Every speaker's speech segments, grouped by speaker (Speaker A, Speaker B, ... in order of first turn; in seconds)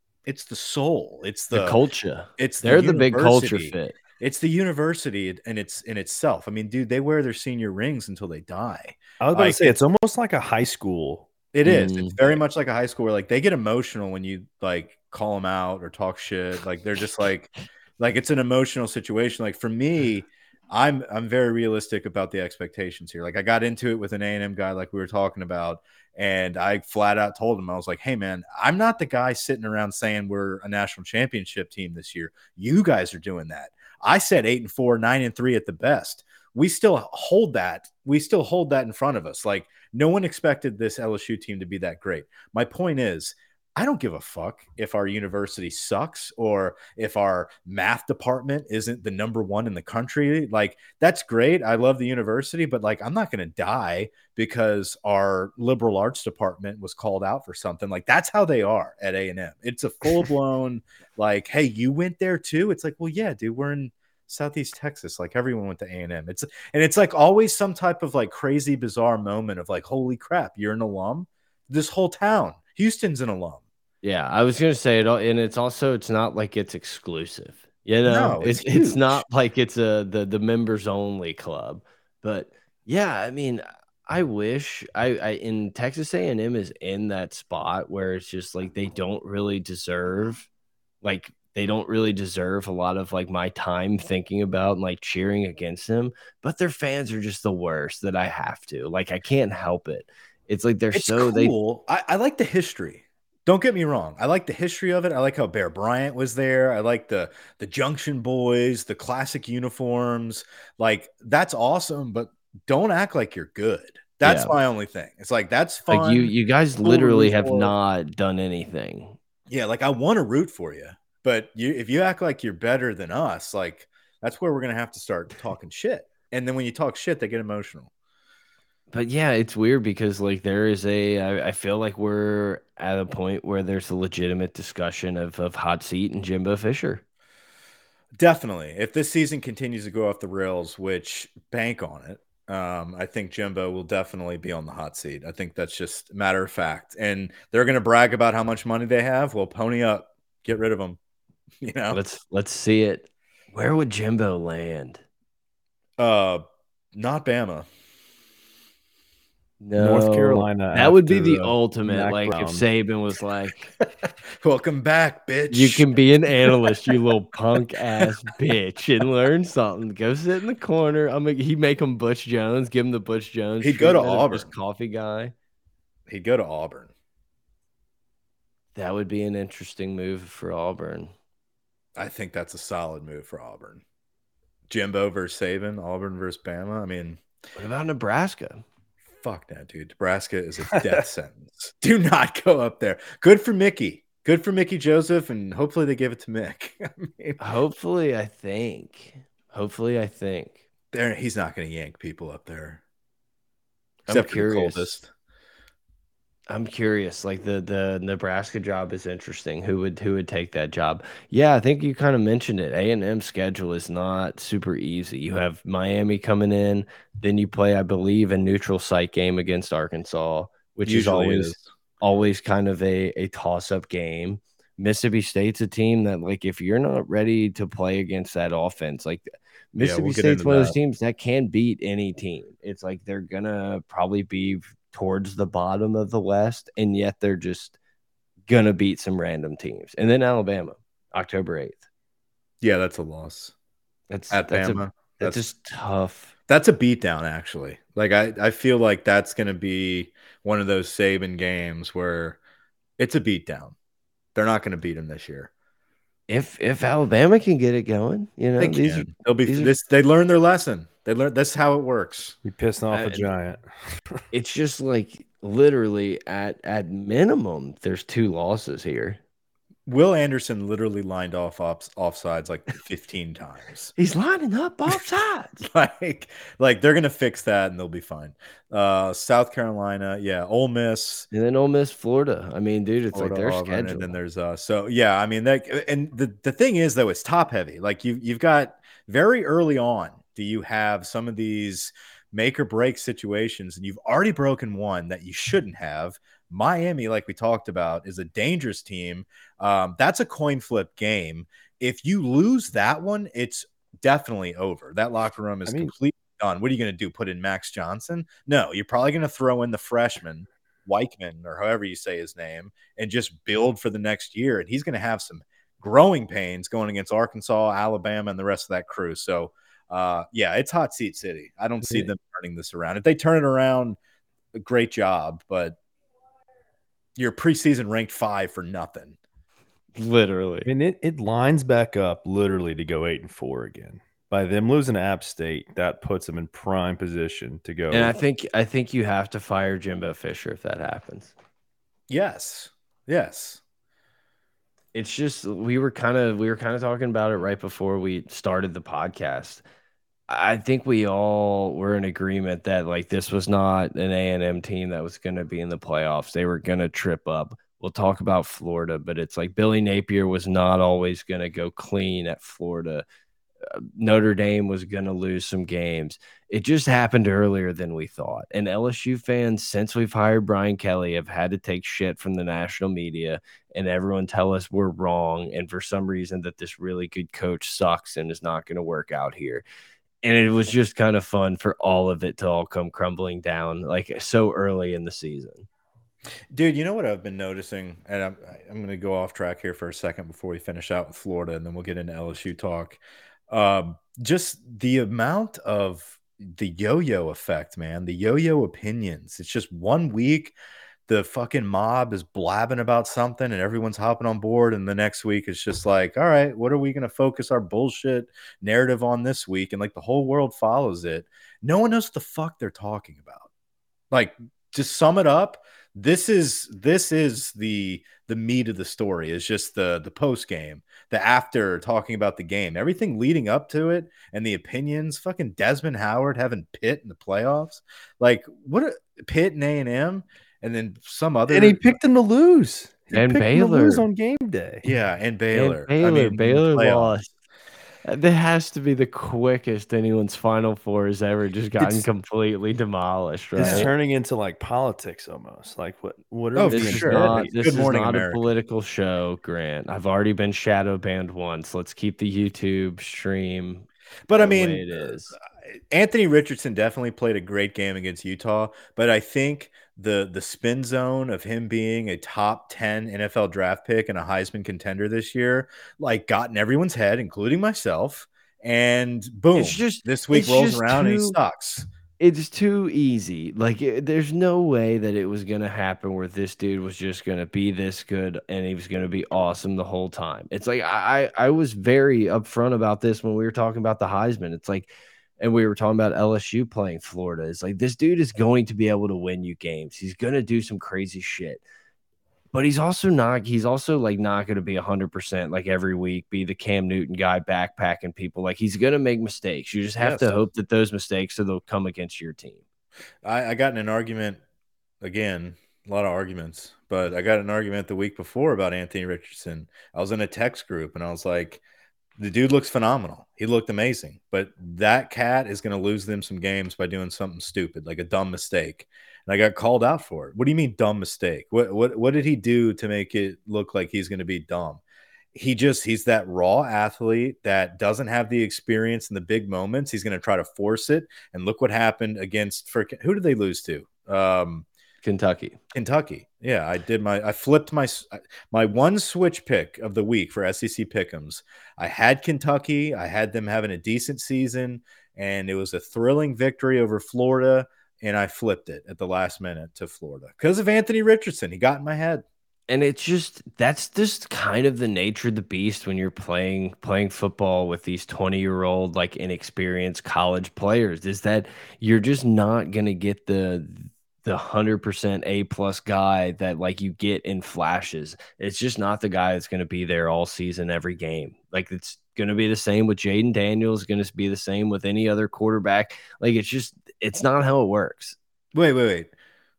Speaker A: 0.3-1.8, 2.4-9.8, 11.5-73.6, 78.1-79.2, 100.9-117.8, 119.5-127.9, 138.2-151.0, 151.6-152.0, 156.0-156.4, 156.9-157.7, 163.8-165.9, 166.4-166.9, 173.6-174.5, 176.1-176.9, 182.0-183.8, 184.7-187.2, 189.2-197.4, 200.9-202.8, 204.1-205.1, 220.9-221.7, 229.8-230.8, 242.6-243.5, 244.3-245.4, 246.5-252.4, 253.0-253.8, 254.3-255.5, 258.6-262.4, 269.9-273.9, 275.6-281.3, 283.1-324.0, 324.5-325.8, 327.2-329.2, 342.1-343.6, 386.5-400.6, 401.1-413.5, 414.1-432.0, 434.8-437.2, 441.8-442.1, 443.6-443.9, 446.6-448.4, 454.3-455.1, 455.7-471.9, 500.0-500.4, 503.2-504.4, 505.0-511.6, 512.2-524.8, 525.3-534.7, 535.7-552.2, 578.5-579.1
Speaker B: 1.5-4.0, 11.6-12.2, 74.0-90.5, 91.0-101.5, 114.2-114.5, 115.9-119.2, 128.9-137.0, 151.9-155.0, 159.6-163.7, 165.5-175.3, 178.8-181.1, 187.6-188.6, 197.4-200.6, 204.1-204.9, 206.5-237.8, 238.5-241.8, 244.1-246.3, 256.3-259.7, 262.9-263.3, 264.3-269.2, 274.0-275.6, 281.3-284.1, 329.9-330.7, 337.9-341.3, 344.9-349.6, 350.3-363.1, 363.6-379.6, 380.2-385.7, 433.1-434.0, 435.5-437.3, 438.1-443.9, 446.7-455.4, 469.5-471.4, 472.2-491.6, 492.5-502.6, 535.0-535.6, 552.7-578.2
Speaker C: 9.2-11.3, 159.8-162.6, 262.4-263.6, 305.7-305.9, 330.7-338.2, 431.5-434.8, 443.6-447.6